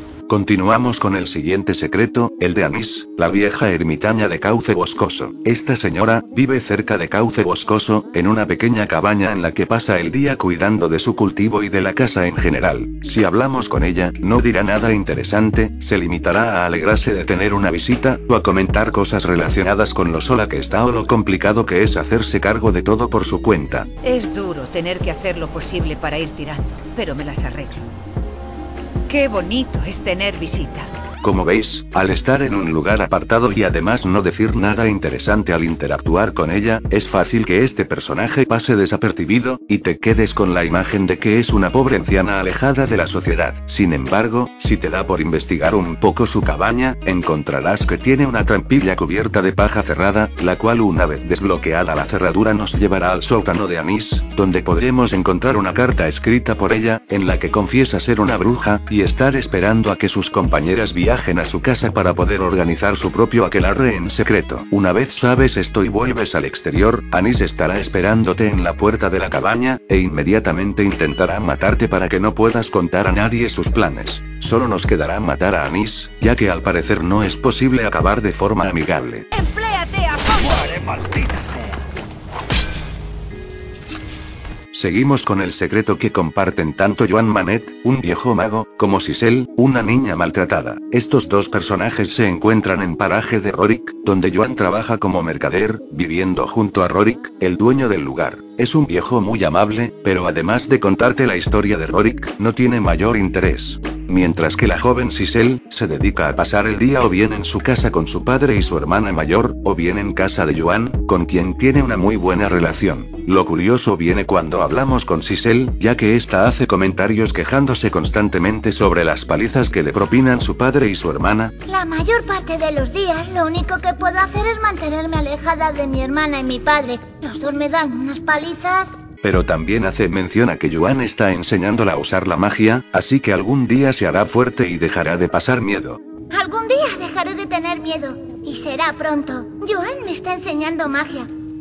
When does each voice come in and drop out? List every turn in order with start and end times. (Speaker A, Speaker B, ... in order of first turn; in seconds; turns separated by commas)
Speaker A: 0.3-23.9, Speaker B: 24.0-27.9, Speaker B: 29.1-30.9, Speaker A: 31.2-79.3, Speaker B: 79.3-81.6, Speaker A: 84.7-121.5, Speaker C: 121.7-129.0, Speaker A: 129.2-136.0, Speaker C: 136.3-141.3